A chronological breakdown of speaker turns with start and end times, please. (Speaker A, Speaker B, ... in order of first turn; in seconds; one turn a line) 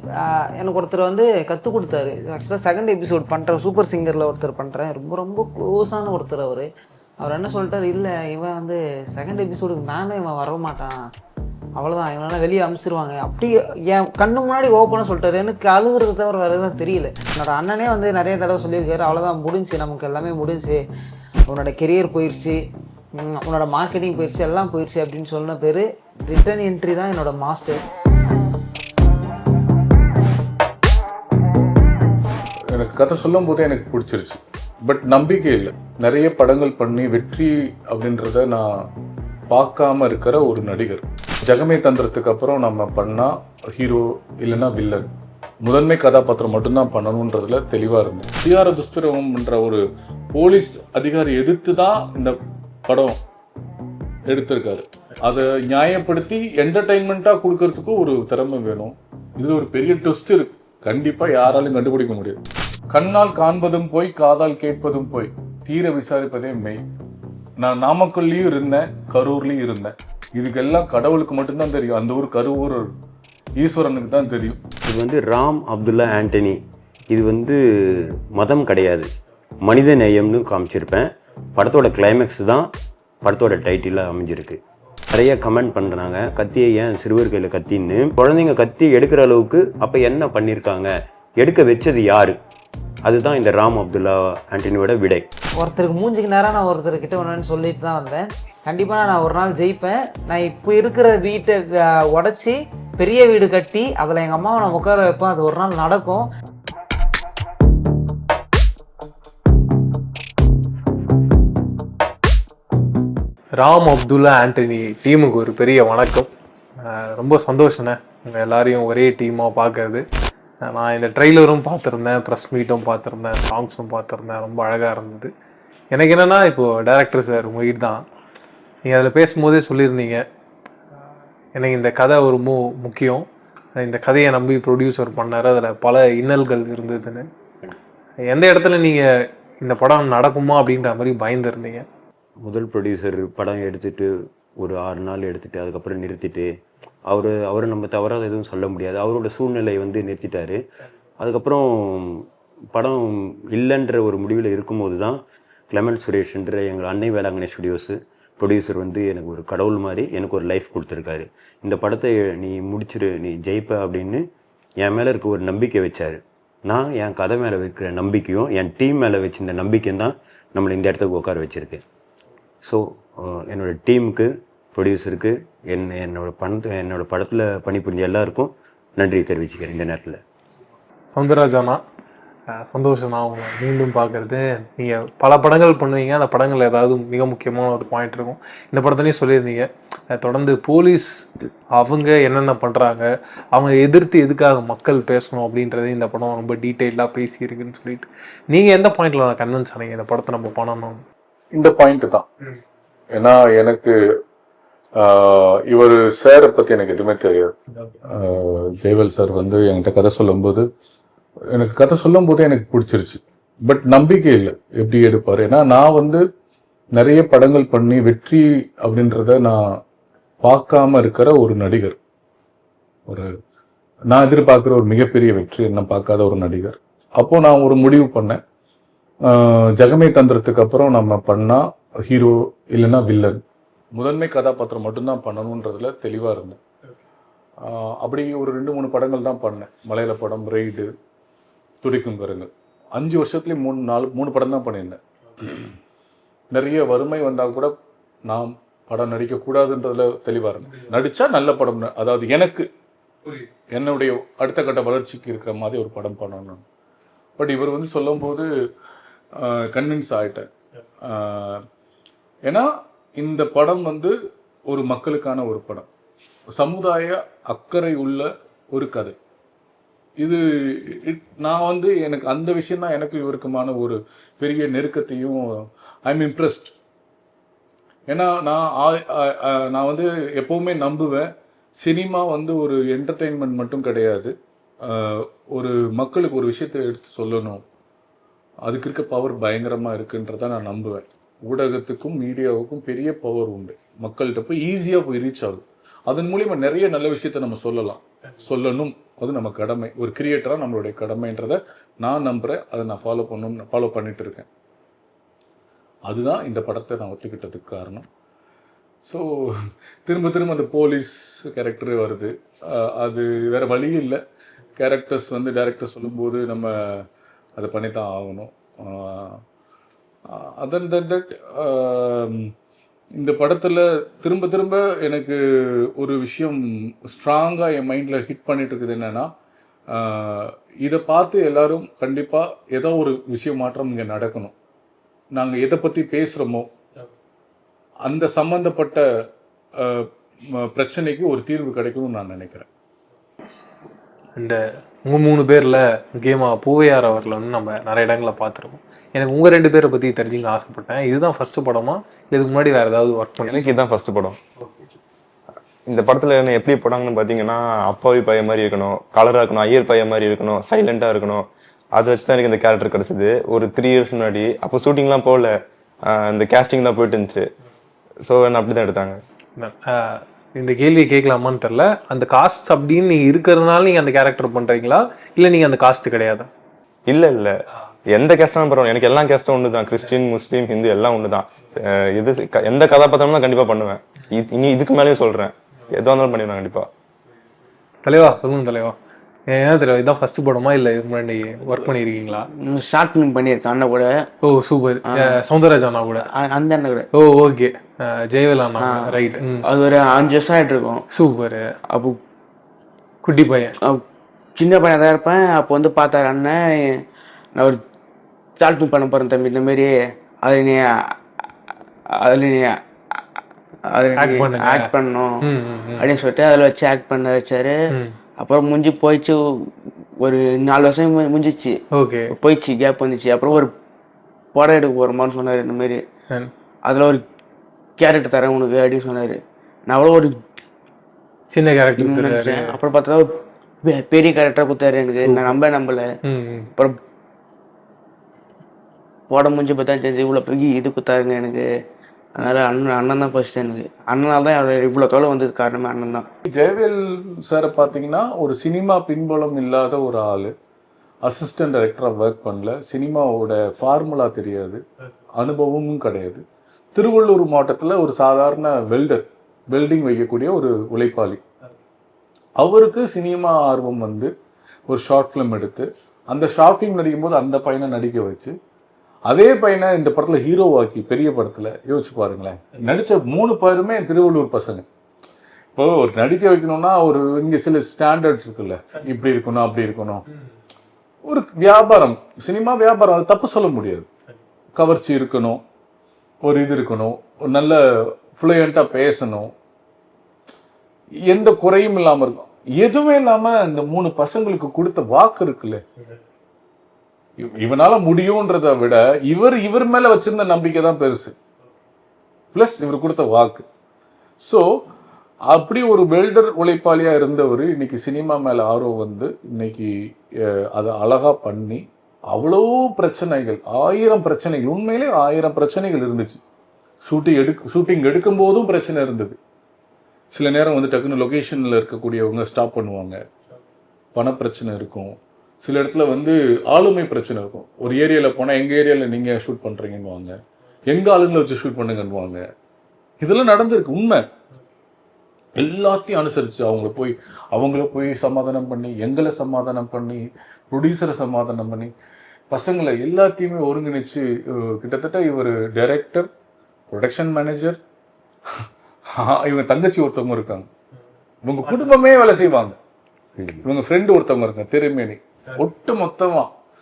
Speaker A: 0.2-6.7
Speaker A: 7.2-11.0
Speaker A: 11.8-20.8
Speaker A: 21.5-22.6
Speaker A: 23.2-27.8
Speaker B: 32.7-38.7
Speaker B: 39.5-45.1
Speaker B: 45.6-53.2
Speaker B: 54.3-62.4
Speaker B: 62.9-66.8
Speaker B: 67.6-72.9
Speaker B: 73.6-74.6
Speaker C: 74.8-76.6
Speaker C: 77.1-79.1
Speaker C: 79.6-82.7
Speaker C: 83.2-84.6
Speaker C: 85.1-92.4
Speaker C: 93.0-95.3
Speaker A: 95.6-106.3
Speaker D: 113.6-116.3
Speaker D: 116.8-120.0
Speaker D: 120.6-125.3
Speaker D: 125.9-128.0
Speaker D: 128.9-130.3
Speaker D: 131.5-133.3
Speaker D: 133.8-137.3
Speaker D: 138.3-139.1
Speaker D: 139.6-141.8
Speaker C: 142.4-146.5
Speaker C: 147.1-150.6
Speaker C: 151.2-164.3
Speaker C: 164.8-171.8
Speaker C: 172.6-180.2
Speaker D: 181.1-181.8
Speaker D: 182.6-201.0
Speaker B: 201.5-202.3
Speaker B: 203.1-204.0
Speaker B: 205.0-207.5
Speaker B: 208.1-210.7
Speaker B: 211.5-216.2
Speaker B: 216.9-219.8
Speaker B: 220.4-222.0
Speaker B: 223.1-223.3
Speaker B: 224.1-228.4
Speaker B: 229.2-233.4
Speaker B: 233.9-236.6
Speaker B: 237.6-240.9
Speaker B: 241.8-245.7
Speaker B: 246.5-247.7
Speaker B: 248.3-252.7
Speaker B: 253.3-256.6
Speaker B: 257.4-258.5
Speaker B: 259.4-260.5
Speaker B: 261.0-261.6
Speaker B: 262.5-264.1
Speaker B: 264.7-265.9
Speaker B: 266.6-269.2
Speaker B: 270.2-276.7
Speaker B: 278.1-287.6
Speaker B: 288.6-304.5
Speaker B: 306.1-308.1
Speaker B: 309.1-314.2
Speaker B: 314.8-317.1
Speaker B: 317.6-319.4
Speaker B: 320.3-322.5
Speaker B: 323.2-329.3
Speaker B: 329.9-334.5
Speaker B: 335.3-336.7
Speaker B: 338.1-339.1
Speaker B: 339.8-342.7
Speaker D: 344.4-353.5
Speaker E: 353.5-354.4
Speaker E: 355.9-367.5
Speaker E: 368.2-369.2
Speaker D: 369.6-376.5
Speaker E: 377.1-377.6
Speaker E: 378.1-386.9
Speaker D: 388.1-388.9
Speaker D: 389.5-392.5
Speaker F: 392.6-394.3
Speaker D: 394.4-396.2
Speaker F: 395.1-395.4
Speaker F: 396.2-397.1
Speaker D: 397.1-399.6
Speaker F: 398.8-401.1
Speaker D: 401.1-401.7
Speaker F: 401.9-402.2
Speaker D: 403.2-403.7
Speaker F: 404.6-407.0
Speaker F: 408.6-409.9
Speaker F: 410.4-411.2
Speaker F: 412.1-413.2
Speaker F: 413.9-415.4
Speaker D: 414.2-414.9
Speaker D: 415.4-416.1
Speaker F: 416.0-417.8
Speaker F: 418.4-419.7
Speaker F: 420.2-421.7
Speaker D: 421.9-422.3
Speaker F: 422.3-423.7
Speaker F: 424.5-426.0
Speaker F: 426.9-427.2
Speaker F: 428.0-430.3
Speaker D: 431.5-432.8
Speaker F: 432.0-436.1
Speaker D: 435.3-435.6
Speaker D: 436.2-436.7
Speaker F: 439.3-441.7
Speaker F: 442.4-446.3
Speaker B: 446.5-450.5
Speaker B: 451.2-454.8
Speaker B: 455.4-456.4
Speaker B: 456.9-461.4
Speaker B: 462.6-464.3
Speaker B: 464.9-468.6
Speaker B: 469.3-474.9
Speaker B: 475.8-480.2
Speaker B: 481.3-484.1
Speaker B: 484.8-485.6
Speaker B: 486.4-489.5
Speaker B: 491.3-495.8
Speaker B: 497.4-501.3
Speaker B: 502.5-503.6
Speaker B: 504.4-504.7
Speaker B: 505.5-516.4
Speaker B: 517.0-519.4
Speaker B: 520.3-523.2
Speaker B: 524.2-530.4
Speaker B: 530.9-532.4
Speaker B: 533.2-534.2
Speaker B: 535.6-541.9
Speaker B: 542.5-546.3
Speaker B: 546.9-547.8
Speaker B: 548.5-550.7
Speaker B: 551.5-552.8
Speaker C: 553.4-553.6
Speaker B: 553.6-556.5